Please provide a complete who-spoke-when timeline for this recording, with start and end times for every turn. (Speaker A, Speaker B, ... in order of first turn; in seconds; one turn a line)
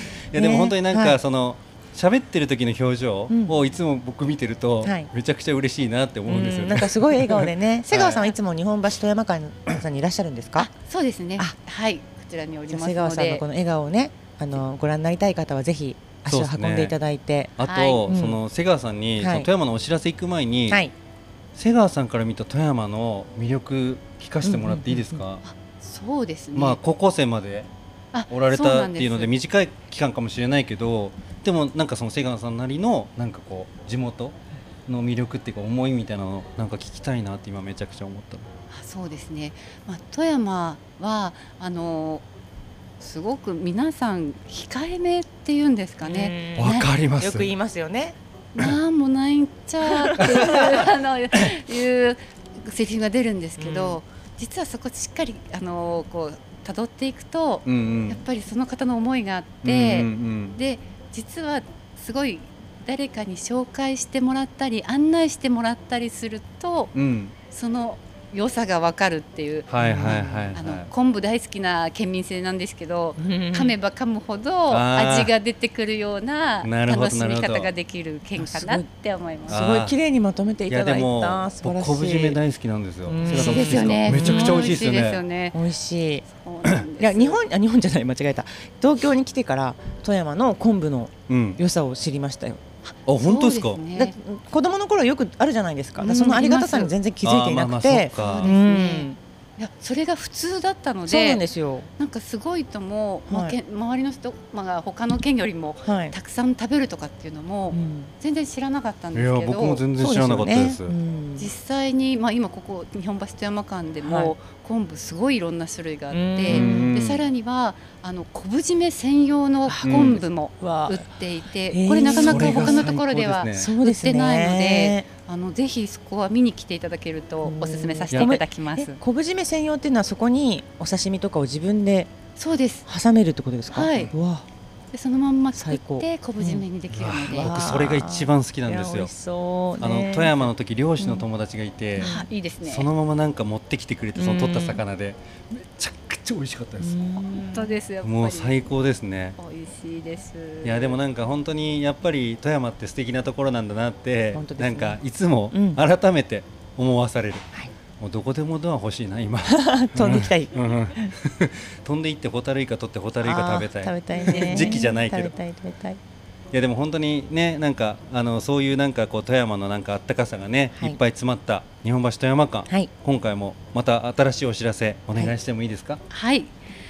Speaker A: 0.3-8.2
Speaker B: 0.3-1.2
Speaker B: 3.3-3.5
Speaker B: 4.8-5.1
Speaker B: 6.3-10.7
Speaker C: 8.1-8.3
Speaker C: 10.6-13.4
Speaker B: 12.7-17.5
Speaker A: 16.3-16.9
Speaker A: 17.6-20.8
Speaker C: 17.6-18.1
Speaker B: 18.1-18.4
Speaker B: 19.2-19.5
Speaker A: 21.5-25.4
Speaker B: 24.4-25.2
Speaker C: 25.4-26.8
Speaker A: 26.5-27.7
Speaker C: 28.1-29.3
Speaker A: 28.3-38.5
Speaker C: 38.7-42.2
Speaker C: 43.0-46.9
Speaker B: 46.0-48.1
Speaker A: 46.6-47.5
Speaker C: 48.5-66.9
Speaker B: 49.8-50.5
Speaker A: 50.2-50.8
Speaker B: 53.6-54.0
Speaker A: 57.6-58.2
Speaker A: 59.6-60.6
Speaker A: 66.9-67.3
Speaker C: 67.5-79.6
Speaker A: 69.7-70.9
Speaker B: 69.8-70.5
Speaker B: 73.2-73.8
Speaker A: 74.7-75.3
Speaker A: 76.6-77.7
Speaker B: 78.4-78.9
Speaker A: 79.5-79.9
Speaker B: 79.5-82.4
Speaker A: 80.7-85.2
Speaker B: 83.0-84.8
Speaker C: 83.2-85.6
Speaker B: 85.5-86.2
Speaker C: 86.2-87.4
Speaker B: 87.0-92.6
Speaker A: 91.3-91.6
Speaker C: 92.8-94.1
Speaker A: 93.0-93.8
Speaker B: 93.9-99.2
Speaker C: 96.0-96.9
Speaker A: 97.2-98.5
Speaker C: 98.2-101.4
Speaker B: 101.1-101.9
Speaker C: 102.0-109.8
Speaker B: 103.3-103.5
Speaker B: 105.8-106.1
Speaker B: 107.7-108.1
Speaker A: 109.1-111.0
Speaker B: 110.0-111.5
Speaker C: 111.4-128.9
Speaker B: 114.0-114.3
Speaker B: 116.1-116.9
Speaker A: 116.5-117.2
Speaker B: 119.7-121.1
Speaker A: 119.8-120.2
Speaker B: 121.7-122.9
Speaker A: 122.0-123.7
Speaker B: 123.5-125.0
Speaker B: 127.4-132.1
Speaker A: 128.1-128.4
Speaker C: 132.4-132.8
Speaker B: 132.8-134.4
Speaker C: 133.7-134.1
Speaker C: 134.9-137.6
Speaker B: 135.5-136.7
Speaker A: 136.9-139.1
Speaker B: 137.3-141.2
Speaker A: 139.8-142.1
Speaker B: 142.0-142.3
Speaker C: 142.0-142.9
Speaker A: 142.6-147.2
Speaker B: 144.1-144.8
Speaker B: 146.8-147.8
Speaker C: 147.3-148.7
Speaker A: 148.0-149.4
Speaker C: 149.4-151.0
Speaker A: 150.6-157.5
Speaker B: 154.3-155.0
Speaker B: 155.5-155.8
Speaker A: 158.0-165.3
Speaker B: 159.5-161.1
Speaker B: 163.2-166.0
Speaker A: 166.5-176.0
Speaker C: 176.1-176.6